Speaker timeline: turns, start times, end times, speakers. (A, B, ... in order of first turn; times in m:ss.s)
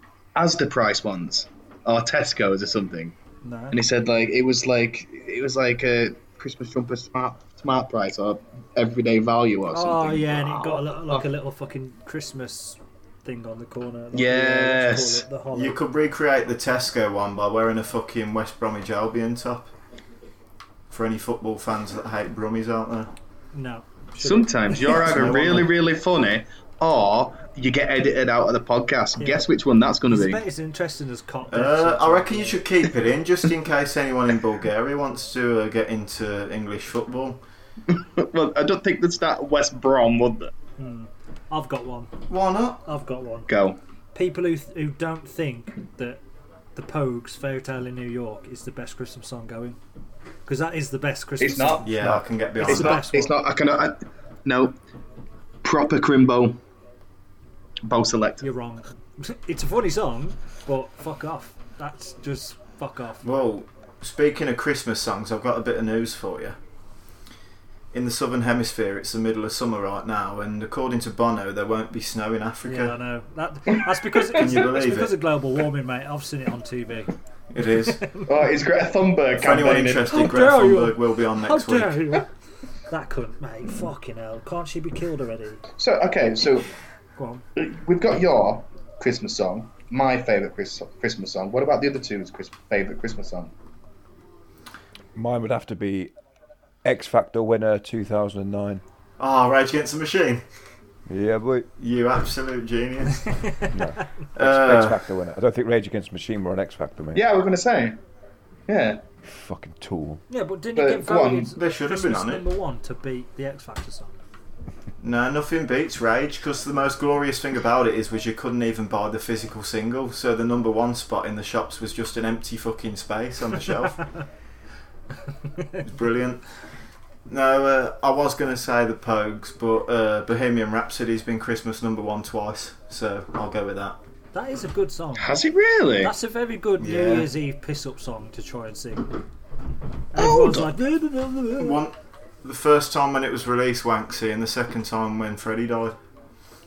0:00.3-0:03.1 A
0:03.4-0:03.8 B
0:03.7-0:11.2 A
0:09.7-0:15.8 B
0:14.1-0:15.2 A
0:15.5-0:19.7 C
0:20.9-0:23.1 C
0:23.5-0:25.0 B
0:24.2-0:30.4 A
0:24.9-0:25.7 C
0:29.2-0:29.5 B
0:30.1-0:32.6 B
0:31.5-0:37.4 C
0:37.9-0:40.5 A
0:40.8-0:42.2 B
0:42.3-0:42.8 C
0:42.8-0:43.5 B
0:43.5-0:43.8 A
0:44.1-0:46.2 B
0:46.8-0:49.8 B
0:50.4-0:53.3 B
0:51.4-0:51.8 A
0:51.8-0:53.0 C
0:52.6-0:54.8 A
0:55.6-0:56.6 A
0:57.8-0:58.4 A
0:58.4-1:03.3 B
1:03.2-1:06.6 C
1:07.9-1:12.9 C
1:12.6-1:17.1 B
1:14.2-1:14.6 A
1:14.3-1:15.2 C
1:17.5-1:18.1 C
1:17.8-1:18.3 B
1:18.2-1:20.1 A
1:19.4-1:22.2 C
1:20.1-1:22.3 B
1:22.9-1:25.6 B
1:25.8-1:26.7 A
1:27.2-1:27.4 B
1:27.6-1:33.5 A
1:35.1-1:36.1 D
1:36.8-1:38.8 D
1:39.2-1:40.4 C
1:41.1-1:41.7 D
1:41.8-1:43.5 C
1:43.3-1:44.0 B
1:43.7-1:47.2 D
1:44.4-1:45.0 C
1:47.1-1:48.0 A
1:48.7-1:49.0 A
1:49.2-1:50.2 D
1:50.3-1:54.2 B
1:50.8-1:51.5 A
1:51.5-1:52.4 C
1:55.0-2:04.0 C
2:05.5-2:05.8 B
2:05.8-2:06.4 C
2:07.3-2:14.0 C
2:14.3-2:15.4 B
2:15.2-2:16.1 A
2:16.0-2:19.2 B
2:16.8-2:17.3 C
2:20.1-2:21.8 B
2:20.2-2:20.7 A
2:21.6-2:26.0 C